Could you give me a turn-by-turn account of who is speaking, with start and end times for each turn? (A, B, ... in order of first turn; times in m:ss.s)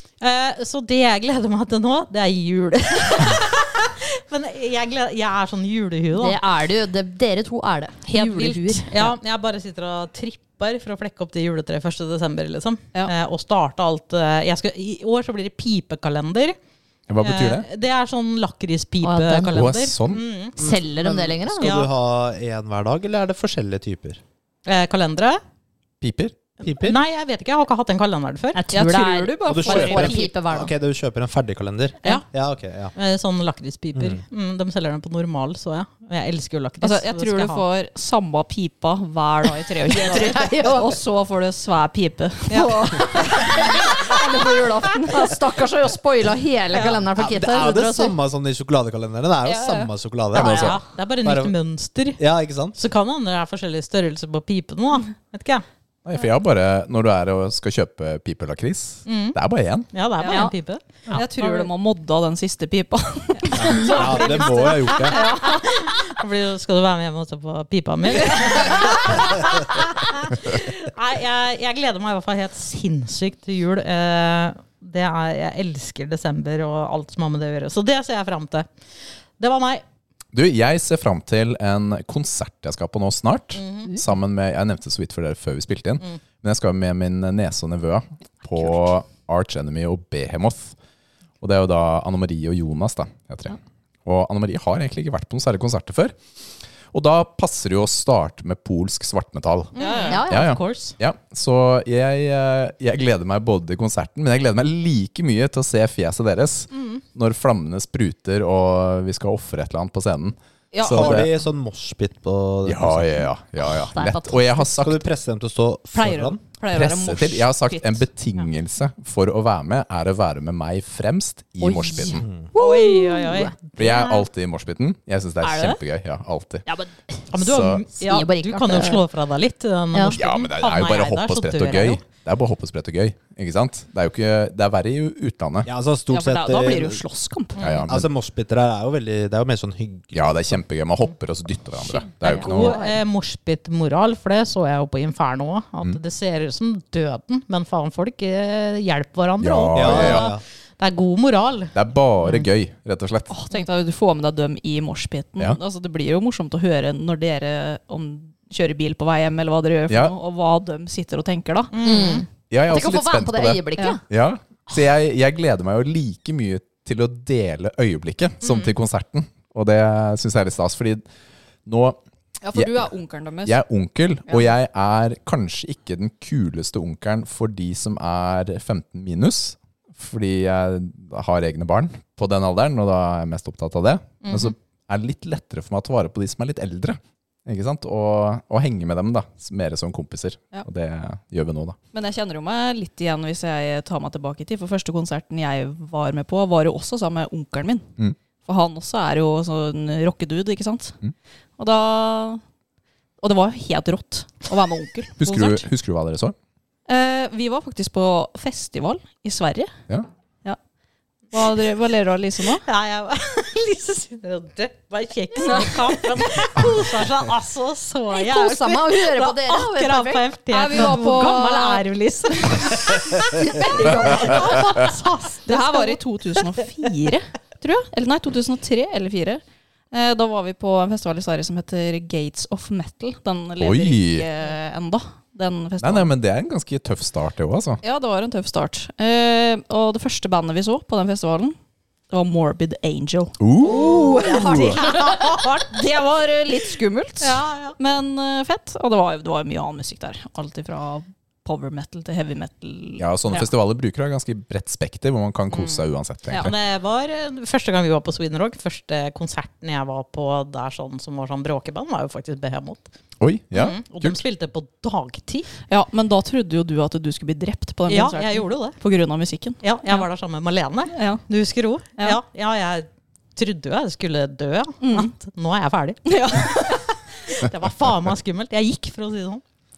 0:00.2-0:06.4 A
0:06.1-0:09.1 B
0:08.1-0:16.6 A
0:17.1-0:17.7 C
0:17.2-0:20.6 A
0:19.0-0:19.6 B
0:19.5-0:20.2 C
0:20.6-0:21.8 B
0:20.6-0:24.2 D
0:21.6-0:21.9 A
0:24.7-0:25.4 A
0:26.0-0:26.4 C
0:26.6-0:27.0 D
0:26.6-0:28.6 A
0:28.5-0:30.7 B
0:28.7-0:30.3 E
0:29.5-0:32.9 D
0:32.0-0:32.3 A
0:33.0-0:37.6 A
0:34.0-0:34.2 D
0:36.8-0:45.3 E
0:39.9-0:40.9 B
0:42.5-0:42.8 A
0:42.5-0:48.2 B
0:47.2-0:51.5 D
0:49.4-0:49.9 E
0:50.3-0:52.2 A
0:50.4-0:50.8 C
0:52.2-0:52.8 D
0:52.7-0:55.6 A
0:56.0-0:59.9 C
0:59.1-0:59.4 A
0:59.9-1:01.7 A
1:00.2-1:00.5 E
1:01.1-1:05.8 E
1:03.4-1:18.7 A
1:03.6-1:05.2 D
1:08.5-1:08.9 E
1:19.4-1:19.8 A
1:20.3-1:30.8 C
1:23.6-1:23.9 A
1:31.4-1:36.2 C
1:36.9-1:51.3 C
1:39.7-1:41.0 A
1:39.8-1:40.2 E
1:40.1-1:40.6 B
1:46.7-1:47.0 A
1:50.7-1:51.3 E
1:50.8-1:53.2 D
1:52.7-1:55.0 C
1:53.6-1:54.7 B
1:54.7-1:56.4 D
1:55.9-1:58.1 E
1:56.7-2:02.2 C
2:01.6-2:03.6 B
2:02.1-2:02.5 D
2:02.5-2:04.2 A
2:03.8-2:06.7 C
2:05.4-2:05.8 E
2:07.3-2:12.0 A
2:07.4-2:07.8 C
2:08.0-2:09.0 B
2:10.1-2:15.7 C
2:15.6-2:17.0 D
2:16.1-2:17.6 E
2:17.6-2:17.9 A
2:17.6-2:18.1 C
2:17.9-2:20.6 D
2:20.1-2:22.8 C
2:22.2-2:31.7 A
2:22.3-2:22.8 E
2:29.4-2:30.3 C
2:29.7-2:30.4 D
2:31.7-2:33.3 C
2:33.3-2:41.7 E
2:39.9-2:40.1 C
2:41.7-2:42.3 A
2:41.8-2:44.0 B
2:42.5-2:51.0 C
2:48.4-2:48.7 A
2:51.7-2:52.0 C
2:52.4-2:53.6 E
2:52.5-2:52.8 C
2:53.4-3:11.8 C
3:04.2-3:04.5 A
3:11.9-3:17.9 E
3:18.4-3:21.0 E
3:21.6-3:22.4 E
3:23.2-3:25.7 E
3:25.2-3:26.4 C
3:26.9-3:29.7 E
3:31.3-3:32.6 E
3:32.6-3:46.0 A
3:35.4-3:36.2 E
3:38.1-3:41.4 B
3:40.5-3:41.8 E
3:43.3-3:44.9 B
3:43.8-3:44.4 E
3:45.5-3:56.1 E
3:53.6-3:54.3 C
3:55.8-3:57.8 C
3:57.8-4:01.6 E
4:02.1-4:13.5 E
4:03.4-4:04.8 C
4:03.6-4:05.5 B
4:04.5-4:05.7 A
4:07.2-4:07.8 A
4:13.0-4:16.6 C
4:15.5-4:22.9 A
4:23.2-4:24.2 C
4:23.5-4:25.5 A
4:25.7-4:30.1 E
4:27.9-4:28.8 A
4:29.6-4:39.4 A
4:30.9-4:31.2 E
4:34.8-4:35.1 E
4:36.1-4:36.9 E